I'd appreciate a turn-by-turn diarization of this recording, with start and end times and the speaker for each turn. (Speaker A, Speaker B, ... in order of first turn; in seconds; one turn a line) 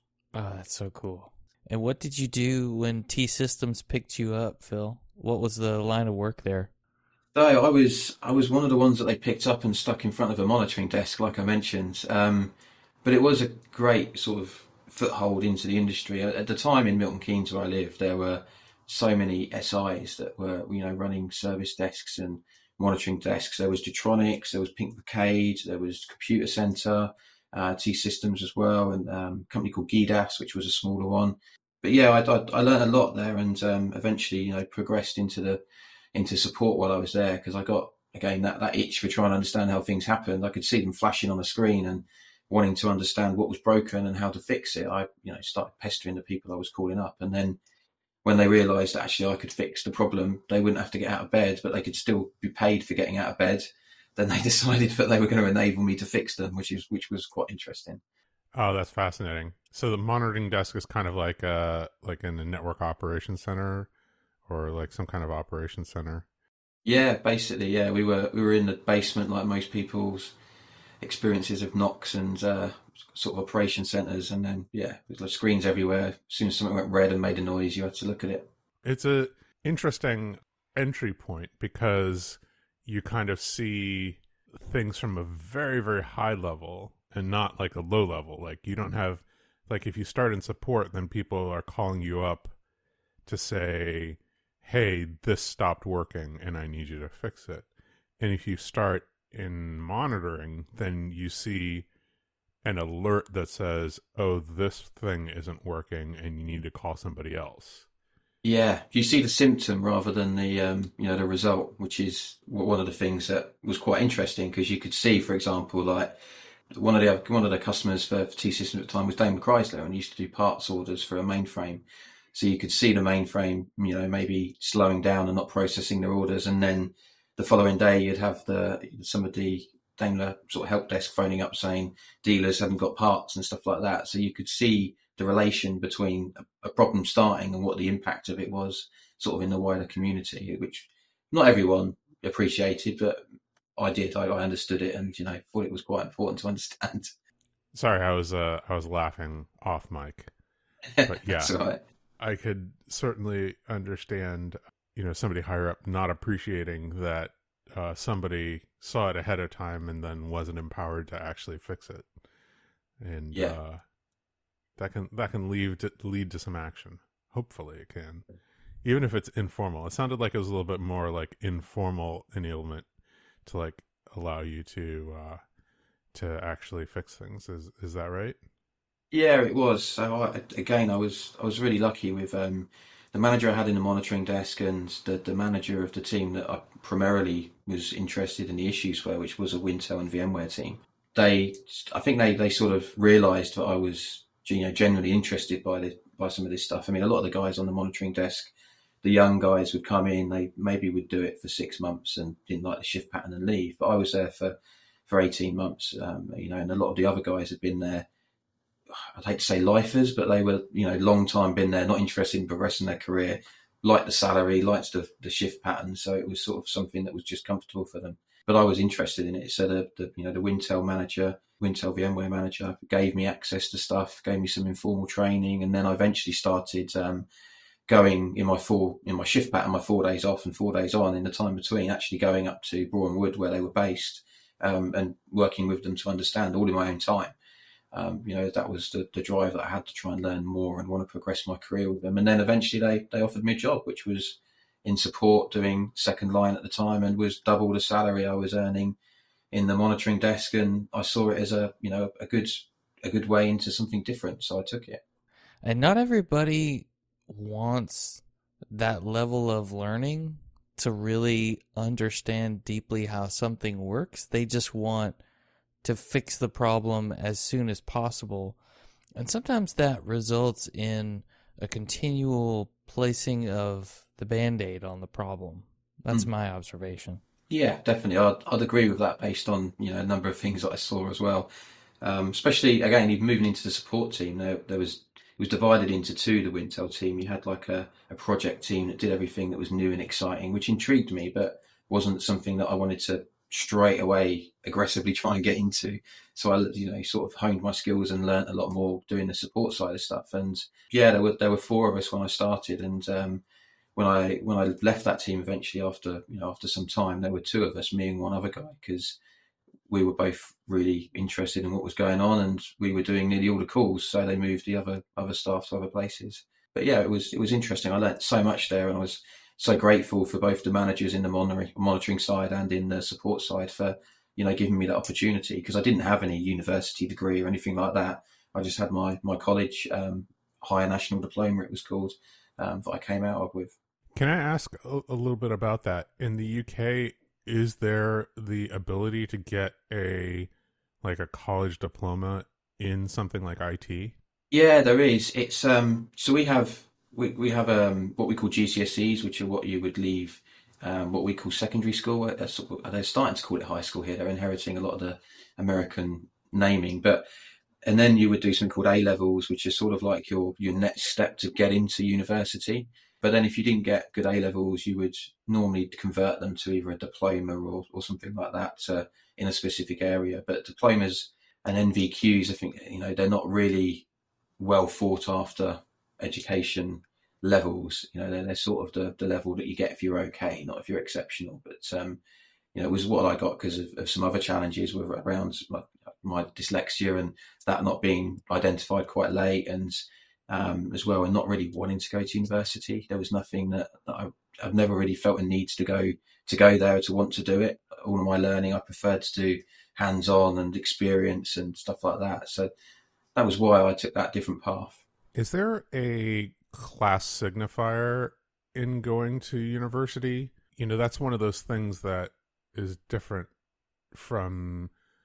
Speaker A: 0.3-6.7
Speaker B: 7.3-12.5
Speaker B: 13.0-35.6
Speaker B: 36.1-47.6
Speaker B: 48.2-58.0
Speaker C: 58.5-63.9
Speaker C: 64.5-66.3
Speaker B: 66.8-70.3
Speaker B: 71.0-78.5
Speaker C: 78.8-92.5
Speaker C: 93.3-97.7
Speaker C: 98.2-101.9
Speaker C: 102.6-107.9
Speaker B: 108.4-116.2
Speaker B: 116.7-143.2
Speaker B: 143.8-147.1
Speaker C: 147.7-150.3
Speaker B: 150.9-151.8
Speaker C: 151.1-151.6
Speaker C: 152.2-162.1
Speaker C: 163.0-163.8
Speaker C: 164.8-168.2
Speaker C: 168.8-172.9
Speaker C: 173.4-175.4
Speaker C: 176.1-178.4
Speaker B: 179.1-198.5
Speaker B: 199.0-204.6
Speaker B: 205.1-208.1
Speaker B: 208.9-227.3
Speaker B: 227.9-237.3
Speaker B: 237.9-249.0
Speaker B: 249.5-255.0
Speaker A: 255.6-265.2
Speaker A: 265.8-268.6
Speaker A: 269.2-277.2
Speaker B: 277.5-281.5
Speaker B: 282.0-303.4
Speaker B: 304.0-309.2
Speaker B: 309.9-333.8
Speaker C: 334.1-340.5
Speaker C: 341.0-344.2
Speaker B: 344.5-357.2
Speaker B: 357.8-374.1
Speaker B: 374.6-382.2
Speaker B: 382.8-402.7
Speaker B: 403.4-405.0
Speaker C: 405.4-413.5
Speaker C: 414.1-414.9